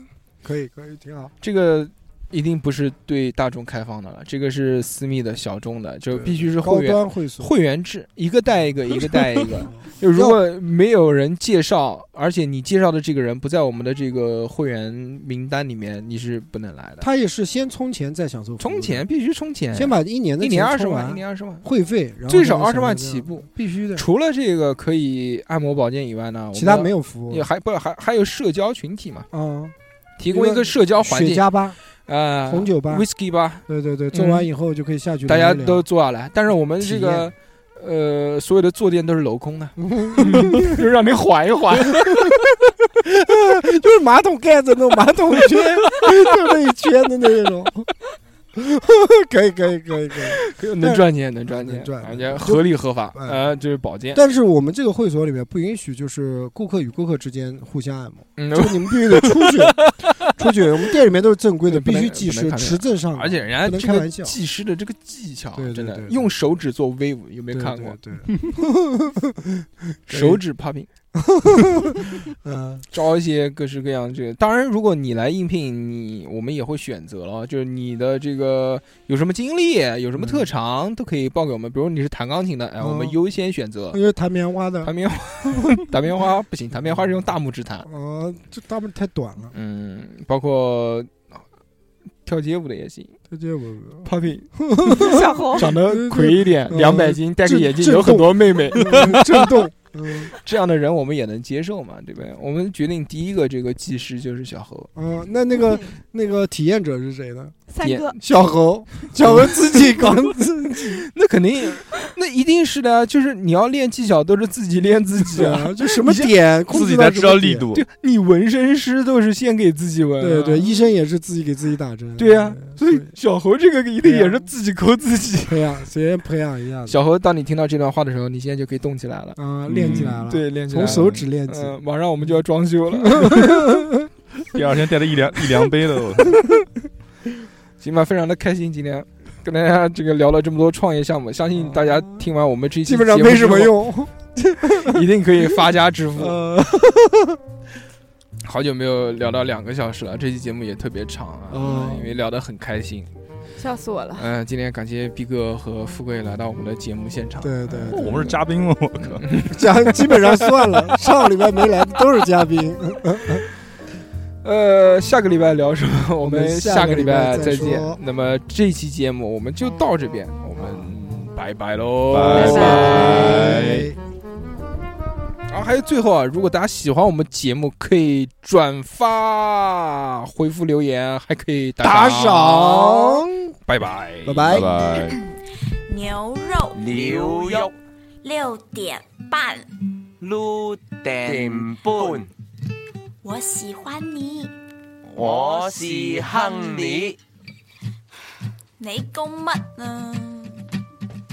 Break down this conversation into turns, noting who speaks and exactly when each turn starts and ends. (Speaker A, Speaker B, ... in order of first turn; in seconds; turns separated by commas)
Speaker A: 0.4-1.3, Speaker B: 1.4-17.1, Speaker A: 6.1-7.5, Speaker A: 9.1-10.4, Speaker A: 17.0-19.1, Speaker B: 18.6-21.6, Speaker A: 19.7-24.1, Speaker B: 22.3-29.3, Speaker A: 26.5-27.5, Speaker A: 29.3-29.8, Speaker B: 30.2-31.5, Speaker A: 30.3-31.8, Speaker B: 32.1-34.5, Speaker A: 32.5-33.1, Speaker A: 33.7-35.9, Speaker B: 35.3-42.3, Speaker A: 36.8-37.3, Speaker A: 39.8-40.8, Speaker A: 41.9-47.9, Speaker A: 48.5-53.4, Speaker B: 50.4-54.2, Speaker A: 54.1-64.4, Speaker B: 58.4-60.7, Speaker B: 61.7-68.0, Speaker A: 65.6-66.3, Speaker A: 67.5-70.4, Speaker B: 70.1-70.9, Speaker A: 71.2-72.8, Speaker B: 72.9-84.0, Speaker A: 80.2-80.5, Speaker A: 82.8-83.2, Speaker A: 83.9-84.9, Speaker B: 84.8-87.9, Speaker A: 87.8-89.5, Speaker B: 89.5-91.4, Speaker B: 92.2-93.2, Speaker A: 93.3-100.3, Speaker B: 94.0-99.7, Speaker C: 94.8-95.7, Speaker B: 100.3-104.9, Speaker A: 105.0-107.6, Speaker C: 107.7-108.2, Speaker B: 107.8-108.2, Speaker A: 108.2-111.1, Speaker B: 109.2-110.3, Speaker B: 110.8-116.3, Speaker A: 115.2-117.7, Speaker D: 116.7-117.8, Speaker B: 117.7-120.7, Speaker A: 120.2-123.1, Speaker B: 122.2-125.6, Speaker A: 124.0-124.5, Speaker A: 125.5-127.0, Speaker B: 126.9-129.4, Speaker A: 129.4-131.8, Speaker D: 129.7-130.3, Speaker B: 130.3-133.9, Speaker A: 133.0-134.1, Speaker D: 134.4-136.3, Speaker B: 137.8-143.8, Speaker A: 141.6-142.3, Speaker A: 142.8-145.1, Speaker B: 144.8-146.4, Speaker A: 146.2-147.4, Speaker B: 148.4-153.1, Speaker A: 151.5-152.1, Speaker C: 151.6-152.1, Speaker C: 153.6-154.3, Speaker B: 154.2-158.4, Speaker A: 157.4-158.2, Speaker D: 157.9-159.3, Speaker B: 159.0-161.0, Speaker A: 159.5-163.5, Speaker B: 164.4-173.7, Speaker A: 166.2-168.0, Speaker A: 170.6-170.9, Speaker D: 172.1-173.9, Speaker A: 172.3-174.0, Speaker C: 172.4-173.3, Speaker B: 175.5-184.6, Speaker A: 181.8-183.5, Speaker A: 184.3-184.7, Speaker D: 184.5-185.2, Speaker E: 185.0-185.3, Speaker E: 185.9-187.0, Speaker F: 186.8-187.7, Speaker E: 188.2-189.7, Speaker F: 190.2-192.3, Speaker E: 193.2-194.5, Speaker F: 195.1-197.2, Speaker E: 198.8-200.6